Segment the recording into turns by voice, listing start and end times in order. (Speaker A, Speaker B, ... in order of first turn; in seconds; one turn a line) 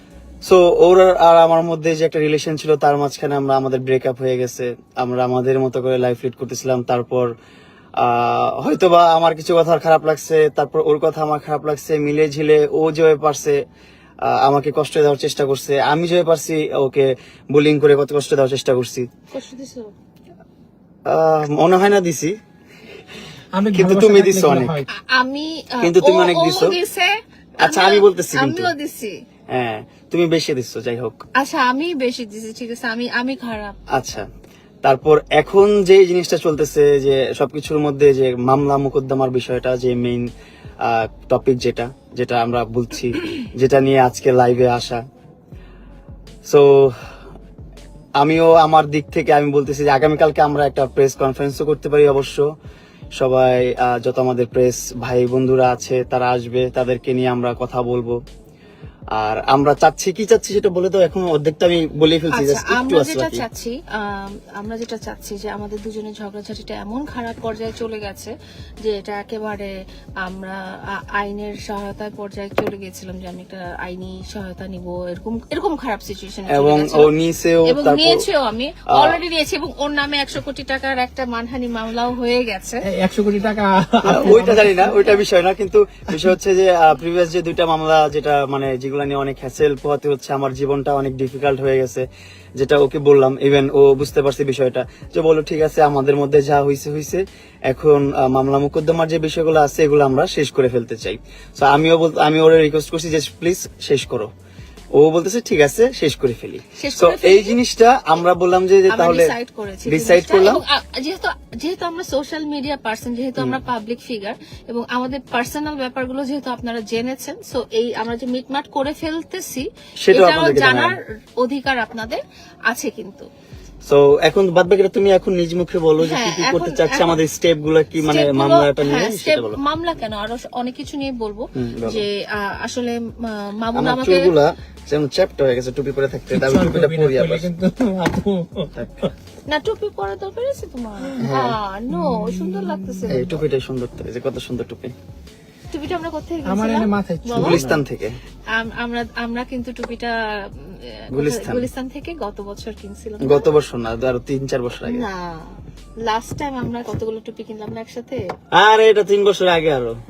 Speaker A: 0.4-7.3
Speaker A: 8.0-13.6
Speaker A: 14.2-19.1
Speaker B: 19.3-19.9
Speaker A: 21.1-22.4
Speaker C: 23.6-24.9
Speaker A: 23.7-24.8
Speaker B: 24.9-29.2
Speaker A: 25.8-26.8
Speaker A: 27.6-28.7
Speaker A: 29.5-31.2
Speaker B: 31.4-33.8
Speaker A: 33.9-34.3
Speaker A: 34.8-40.3
Speaker A: 40.8-45.0
Speaker A: 46.5-47.0
Speaker A: 48.2-52.5
Speaker A: 53.2-58.2
Speaker A: 59.1-63.5
Speaker B: 62.3-77.1
Speaker A: 76.5-78.3
Speaker B: 77.7-82.9
Speaker A: 78.9-79.2
Speaker C: 82.8-85.0
Speaker A: 84.0-104.3
Speaker B: 84.2-84.5
Speaker A: 104.9-109.3
Speaker B: 106.8-107.6
Speaker B: 108.9-123.3
Speaker A: 109.9-110.6
Speaker A: 120.0-121.0
Speaker A: 123.8-129.6
Speaker B: 126.0-127.2
Speaker B: 128.0-134.3
Speaker A: 131.6-132.1
Speaker A: 133.8-137.4
Speaker C: 136.3-139.1
Speaker A: 138.8-139.1
Speaker B: 139.5-143.4
Speaker A: 141.2-141.6
Speaker C: 141.9-143.0
Speaker A: 143.1-144.9
Speaker B: 145.7-147.6
Speaker C: 146.5-147.8
Speaker A: 147.3-148.2
Speaker B: 148.5-153.5
Speaker A: 151.1-151.7
Speaker A: 153.2-155.1
Speaker B: 154.8-158.2
Speaker A: 158.5-159.9